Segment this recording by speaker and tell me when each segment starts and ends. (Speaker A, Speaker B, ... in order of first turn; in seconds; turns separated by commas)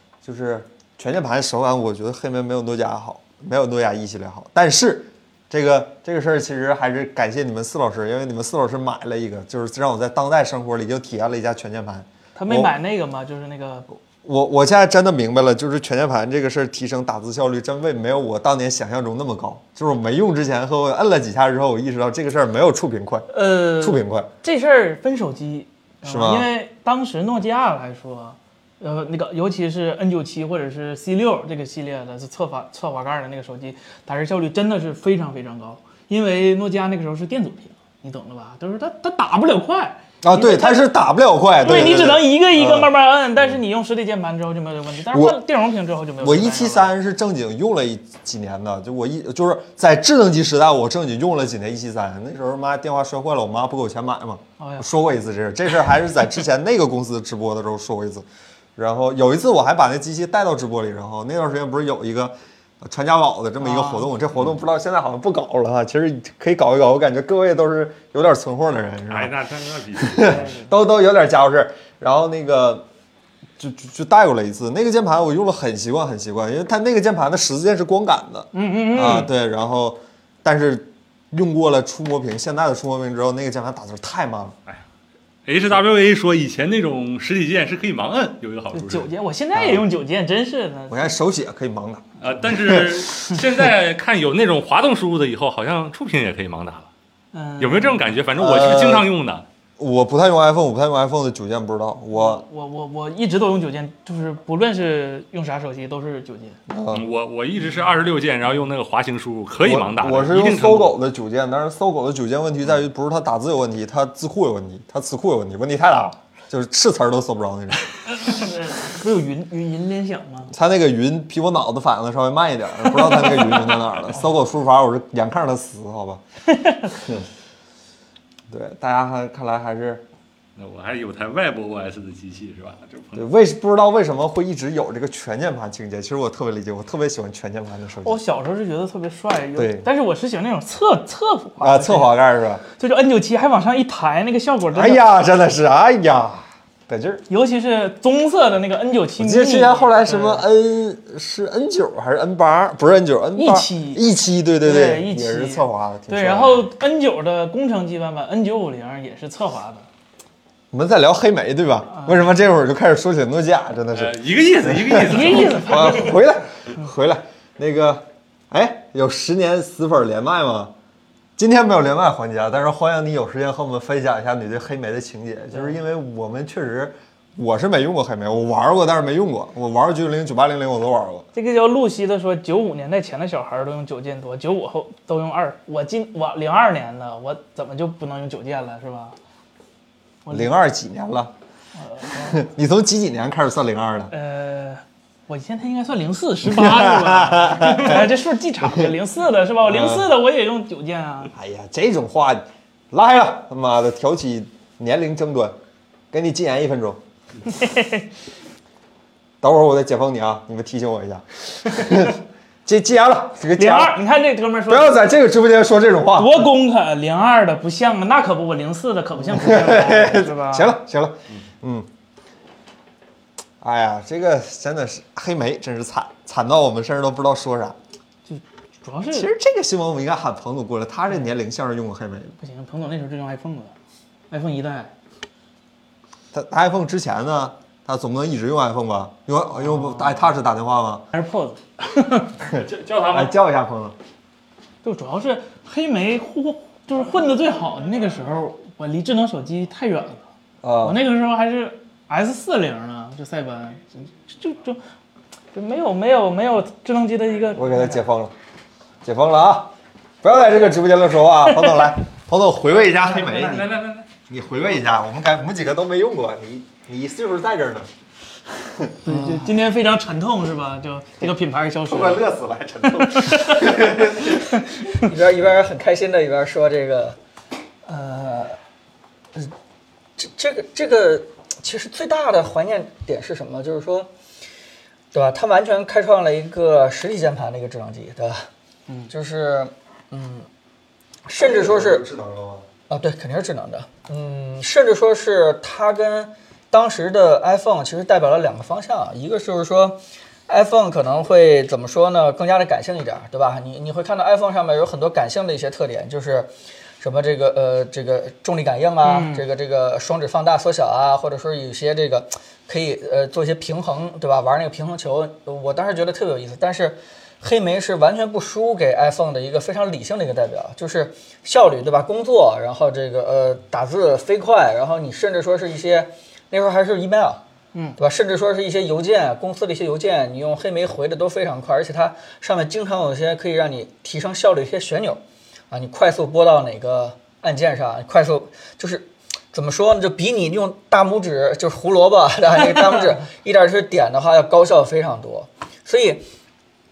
Speaker A: 0.2-12.7, Speaker B: 12.3-13.9, Speaker A: 14.2-24.3, Speaker B: 23.3-40.9, Speaker A: 26.0-26.5, Speaker A: 40.2-42.9, Speaker B: 41.6-46.9, Speaker A: 45.1-45.4, Speaker A: 46.2-69.3, Speaker B: 54.6-54.9, Speaker B: 63.6-64.1, Speaker C: 69.1-70.5, Speaker A: 70.0-72.8, Speaker B: 70.2-70.7, Speaker A: 73.6-84.5, Speaker B: 78.5-79.3, Speaker C: 85.5-89.1, Speaker B: 88.7-91.1, Speaker A: 89.5-89.8, Speaker A: 90.9-93.0, Speaker C: 92.2-96.9, Speaker B: 97.3-98.2, Speaker C: 97.6-99.4, Speaker A: 98.4-99.1, Speaker A: 99.8-102.4, Speaker B: 102.1-106.6, Speaker A: 106.7-107.0, Speaker C: 106.9-110.9, Speaker A: 109.6-118.0, Speaker B: 118.1-120.5, Speaker A: 120.5-126.2, Speaker B: 123.0-124.2, Speaker B: 126.5-126.9, Speaker A: 126.9-127.3, Speaker A: 128.5-130.0, Speaker C: 130.6-133.2, Speaker A: 133.1-138.2, Speaker B: 138.0-142.2, Speaker A: 139.6-139.9, Speaker A: 141.6-142.6, Speaker B: 142.7-145.1, Speaker A: 144.7-147.2, Speaker B: 147.3-150.4, Speaker A: 149.2-156.7, Speaker B: 153.3-154.0, Speaker B: 154.6-159.8, Speaker A: 160.7-170.7, Speaker C: 163.9-165.6, Speaker B: 165.0-166.2, Speaker A: 171.4-181.2, Speaker B: 181.3-189.2, Speaker B: 190.2-190.5, Speaker A: 190.3-191.3, Speaker B: 191.8-192.4, Speaker A: 192.2-194.1, Speaker B: 194.1-201.3, Speaker A: 196.4-198.1, Speaker A: 199.6-200.1, Speaker A: 201.3-205.6, Speaker A: 206.1-207.0, Speaker B: 207.5-208.1, Speaker A: 209.4-214.0, Speaker B: 213.6-215.0, Speaker A: 214.7-216.4, Speaker B: 216.2-220.7, Speaker A: 219.2-221.9, Speaker A: 223.6-227.8, Speaker B: 228.2-229.3, Speaker A: 229.1-232.3, Speaker B: 232.4-233.7, Speaker B: 234.3-234.9, Speaker A: 236.3-241.1, Speaker B: 239.6-240.2, Speaker B: 241.1-242.3, Speaker C: 242.5-243.3, Speaker A: 242.5-243.9, Speaker B: 244.8-250.2, Speaker A: 250.6-251.0, Speaker B: 250.8-254.8, Speaker B: 255.5-258.0, Speaker A: 257.6-258.3, Speaker A: 259.0-267.9, Speaker B: 261.5-261.9, Speaker C: 263.1-264.0, Speaker A: 268.5-269.2, Speaker B: 269.0-272.2, Speaker A: 271.9-274.5, Speaker B: 272.8-274.6, Speaker D: 275.0-277.2, Speaker D: 277.9-278.6, Speaker D: 280.2-284.1, Speaker D: 285.1-288.4, Speaker D: 289.1-290.5, Speaker D: 291.3-292.0, Speaker A: 291.4-292.6, Speaker D: 292.9-306.5, Speaker D: 307.0-327.4, Speaker B: 309.0-309.4, Speaker D: 328.0-346.2